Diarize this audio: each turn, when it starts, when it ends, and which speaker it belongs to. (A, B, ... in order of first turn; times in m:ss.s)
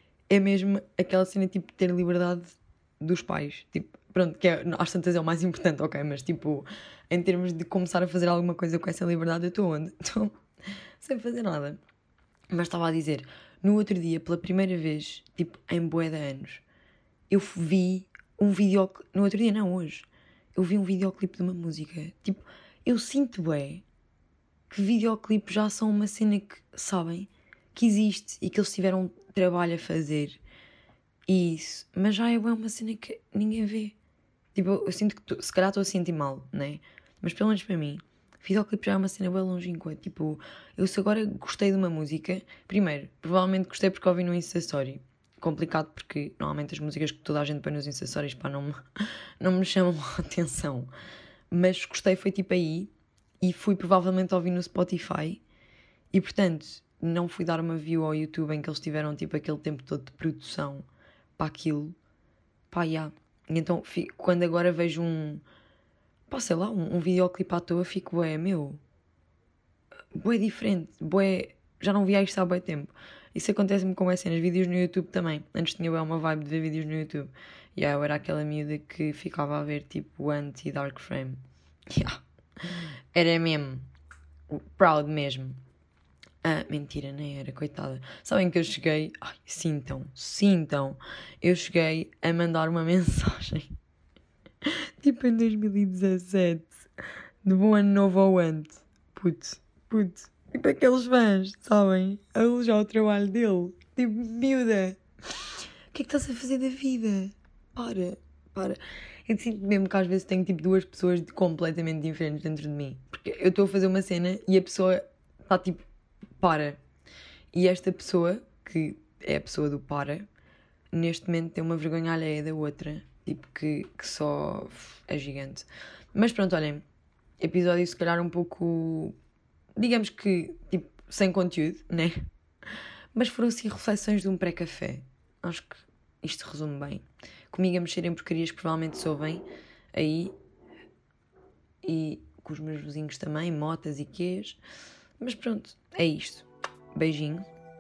0:00.3-0:10.4 A
0:11.0-0:11.8 A
0:12.5-0:16.6 A
0:17.3-0:23.8 A
0:24.7-0:30.4 A
0:31.3-0:34.0 A
0:34.6-0:48.8 A
0:49.4-0:50.9 A
0:51.5-0:55.4 A
0:56.1-1:02.0 A
1:02.7-1:05.4 A
1:06.3-1:08.8 A
1:10.2-1:22.2 A
1:23.1-1:23.9 A
1:24.5-1:25.6 A
1:26.4-1:33.7 A
1:34.6-1:36.9 A
1:37.4-1:45.0 A
1:45.9-1:55.8 A
1:56.4-1:56.8 A
1:57.5-2:00.3 A
2:00.9-2:06.8 A
2:07.4-2:09.2 A
2:09.8-2:12.2 A
2:13.1-2:20.3 A
2:21.8-2:24.6 A
2:25.2-2:27.5 A